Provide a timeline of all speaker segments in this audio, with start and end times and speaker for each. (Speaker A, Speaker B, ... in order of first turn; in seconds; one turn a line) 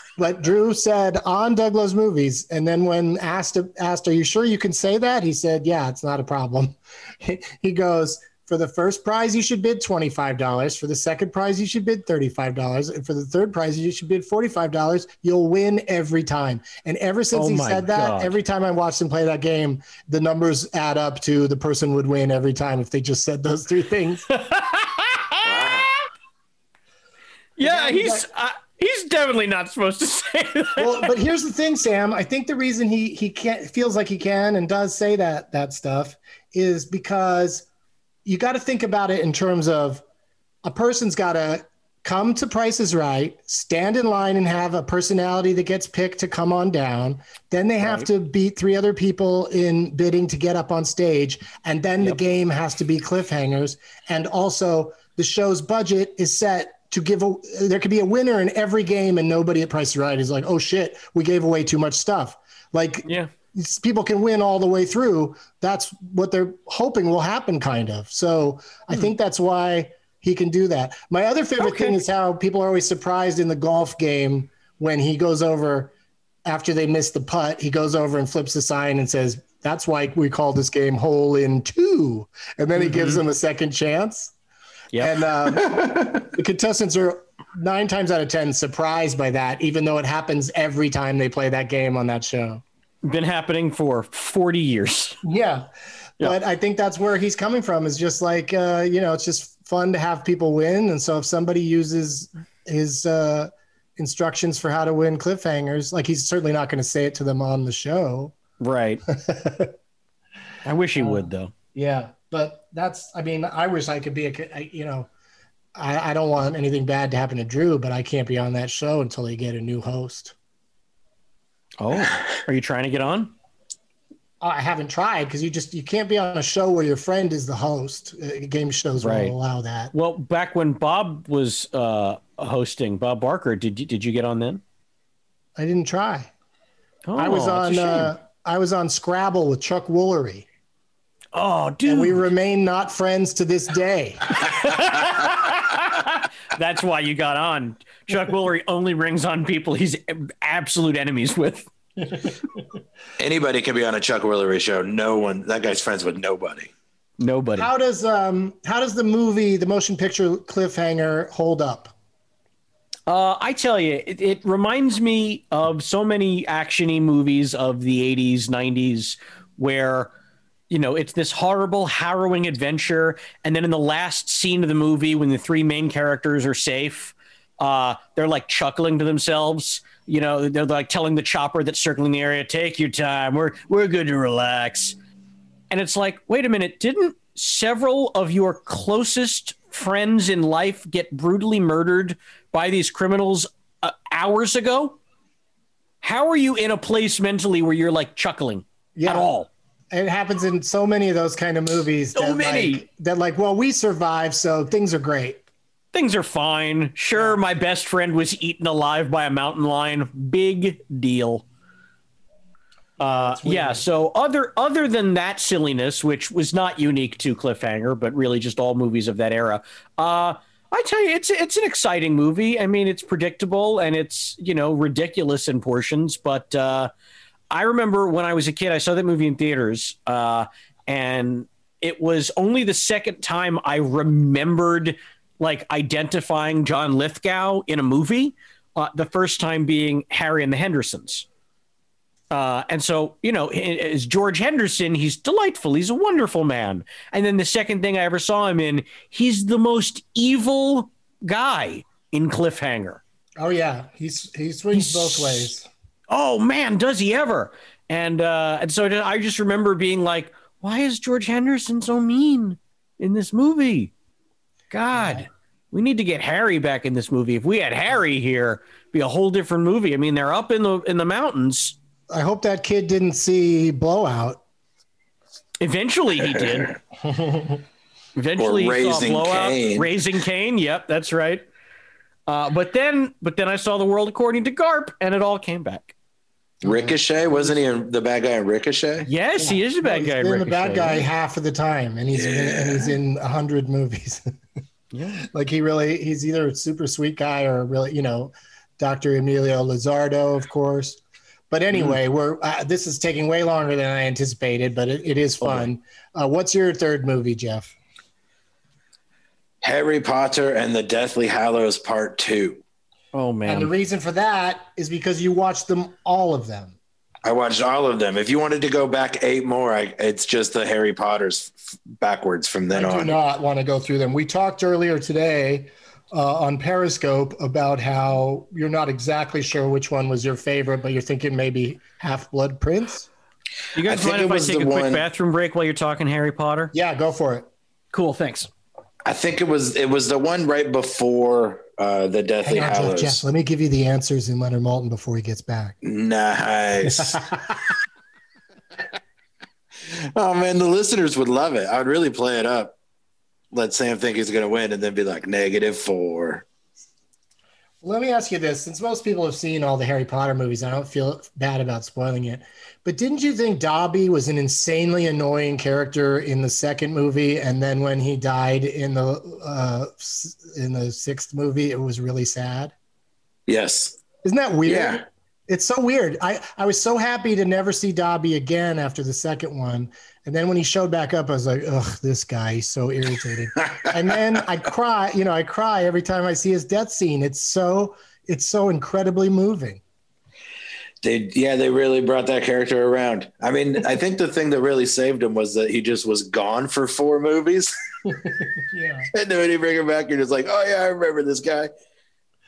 Speaker A: 0.2-24.2
Speaker B: 17.3-18.3
Speaker B: 24.5-25.7
Speaker C: 25.4-25.9
Speaker B: 27.6-31.1
Speaker A: 27.6-28.2
Speaker A: 30.8-37.7
Speaker A: 38.2-40.0
Speaker A: 40.6-75.9
Speaker B: 71.6-72.0
Speaker A: 76.5-84.3
Speaker B: 82.8-83.2
Speaker A: 85.0-92.6
Speaker B: 93.0-95.2
Speaker A: 95.2-108.3
Speaker B: 108.6-109.0
Speaker A: 109.1-109.7
Speaker B: 110.6-111.5
Speaker A: 111.0-115.1
Speaker A: 115.7-120.3
Speaker B: 121.8-123.3
Speaker A: 124.4-129.9
Speaker B: 129.0-129.3
Speaker B: 129.9-134.6
Speaker A: 135.6-136.3
Speaker B: 137.1-138.1
Speaker A: 137.2-140.5
Speaker B: 141.3-142.2
Speaker A: 141.8-144.3
Speaker B: 144.3-151.7
Speaker C: 153.2-156.7
Speaker B: 157.2-157.7
Speaker A: 157.6-161.9
Speaker B: 163.1-170.1
Speaker B: 170.7-185.0
Speaker B: 185.7-195.0
Speaker B: 196.0-199.5
Speaker A: 198.9-199.3
Speaker A: 199.9-205.4
Speaker B: 202.2-202.8
Speaker B: 205.9-211.4
Speaker A: 213.0-213.8
Speaker B: 213.0-226.9
Speaker B: 227.5-241.2
Speaker B: 242.3-253.0
Speaker A: 253.4-255.7
Speaker B: 254.7-255.5
Speaker B: 256.1-263.9
Speaker B: 264.7-271.8
Speaker A: 264.9-265.2
Speaker A: 272.1-274.4
Speaker B: 275.6-276.7
Speaker A: 277.1-277.6
Speaker B: 278.1-281.4
Speaker C: 278.4-279.9
Speaker B: 282.3-285.9
Speaker A: 286.6-287.5
Speaker C: 286.6-289.1
Speaker B: 289.1-291.0
Speaker A: 289.4-294.3
Speaker C: 292.1-292.9
Speaker B: 294.9-295.3
Speaker A: 295.3-307.7
Speaker C: 309.6-312.6
Speaker B: 313.1-313.7
Speaker A: 313.4-316.8
Speaker C: 317.2-323.1
Speaker A: 322.7-333.1
Speaker B: 333.8-336.7
Speaker C: 333.8-335.0
Speaker A: 336.7-337.5
Speaker B: 337.9-338.5
Speaker C: 339.1-343.2
Speaker A: 342.4-345.8
Speaker C: 345.8-347.2
Speaker A: 346.8-347.7
Speaker C: 349.9-352.7
Speaker C: 353.5-356.4
Speaker A: 357.8-372.7
Speaker C: 373.5-374.0
Speaker A: 374.2-389.8
Speaker C: 374.6-375.0
Speaker C: 391.0-397.7
Speaker A: 398.1-399.1
Speaker C: 399.1-401.7